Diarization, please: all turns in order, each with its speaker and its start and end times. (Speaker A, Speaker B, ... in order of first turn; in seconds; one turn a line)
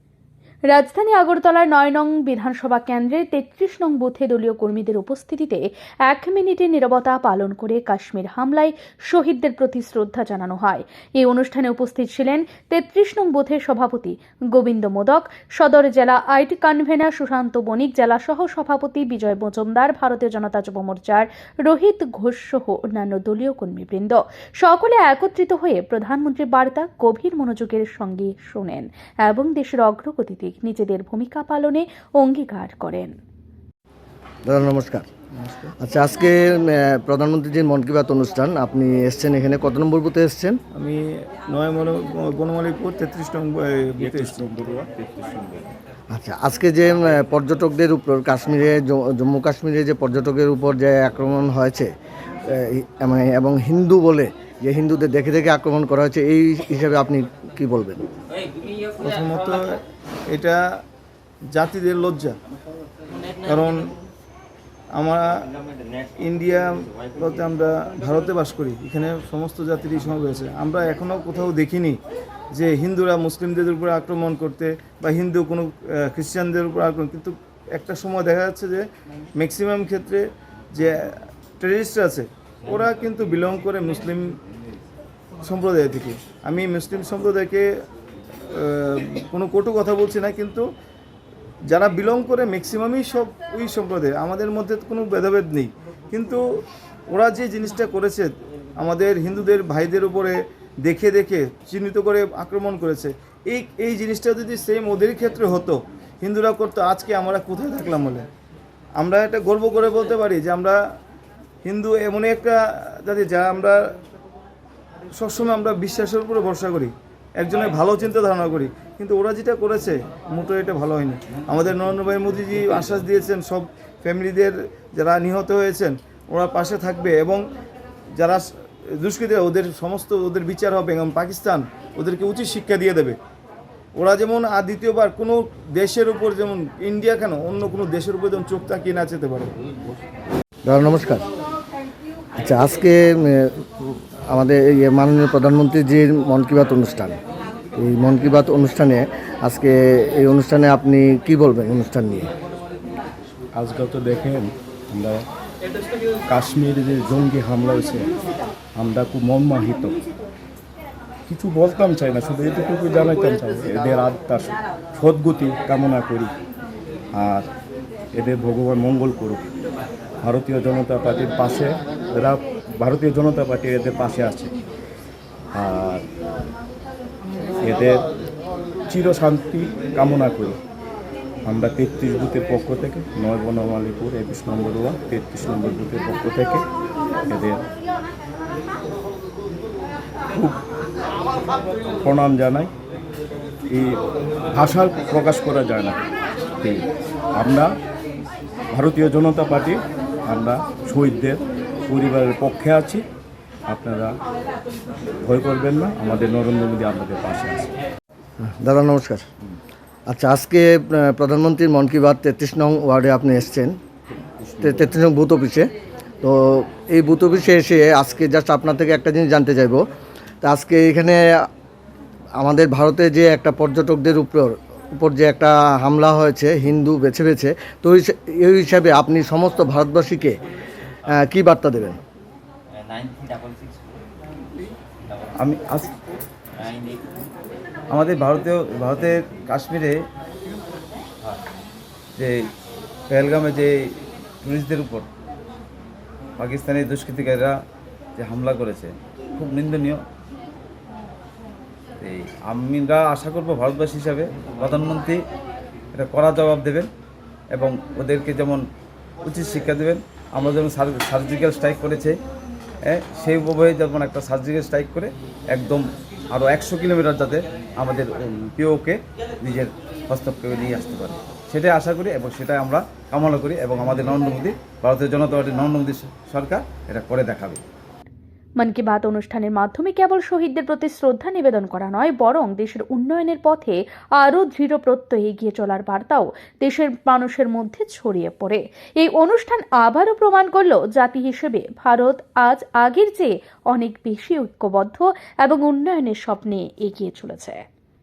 Speaker A: 0.7-33.1
Speaker B: 34.5-35.1
Speaker C: 35.4-35.7
Speaker B: 35.8-40.6
Speaker C: 40.7-44.5
Speaker D: 44.0-45.7
Speaker B: 46.1-51.9
Speaker B: 52.5-58.0
Speaker C: 59.0-60.6
Speaker C: 61.5-62.4
Speaker C: 63.4-63.8
Speaker C: 65.0-65.3
Speaker C: 66.2-72.0
Speaker C: 72.5-78.8
Speaker C: 79.4-84.3
Speaker C: 85.4-87.7
Speaker C: 88.5-90.7
Speaker C: 91.7-96.4
Speaker C: 97.1-108.2
Speaker C: 109.0-110.8
Speaker C: 111.6-113.8
Speaker C: 115.2-127.4
Speaker C: 128.2-133.2
Speaker C: 133.9-139.5
Speaker B: 140.7-141.3
Speaker B: 142.4-143.7
Speaker B: 144.3-147.2
Speaker B: 147.8-152.3
Speaker D: 153.6-155.3
Speaker D: 156.3-158.1
Speaker D: 158.8-160.0
Speaker D: 161.3-166.3
Speaker D: 167.2-167.5
Speaker D: 168.2-169.4
Speaker D: 170.2-174.5
Speaker D: 175.5-176.1
Speaker D: 177.6-178.0
Speaker D: 178.9-180.6
Speaker D: 181.5-186.6
Speaker D: 187.3-187.6
Speaker D: 190.3-190.6
Speaker D: 192.0-192.7
Speaker D: 193.7-194.0
Speaker D: 194.5-196.0
Speaker D: 196.6-196.9
Speaker D: 197.4-197.7
Speaker D: 198.7-203.0
Speaker D: 203.7-204.1
Speaker D: 205.2-207.7
Speaker B: 208.4-209.3
Speaker B: 210.1-213.8
Speaker D: 214.2-214.9
Speaker B: 214.6-215.7
Speaker B: 216.2-219.8
Speaker B: 220.4-221.5
Speaker B: 222.4-230.4
Speaker B: 231.1-232.0
Speaker E: 235.4-235.9
Speaker E: 237.9-239.9
Speaker E: 243.1-243.7
Speaker E: 244.4-245.1
Speaker E: 246.4-247.6
Speaker E: 248.2-250.0
Speaker E: 252.0-255.2
Speaker E: 256.0-256.9
Speaker E: 257.5-258.6
Speaker E: 259.3-262.1
Speaker E: 262.9-277.6
Speaker A: 278.6-297.6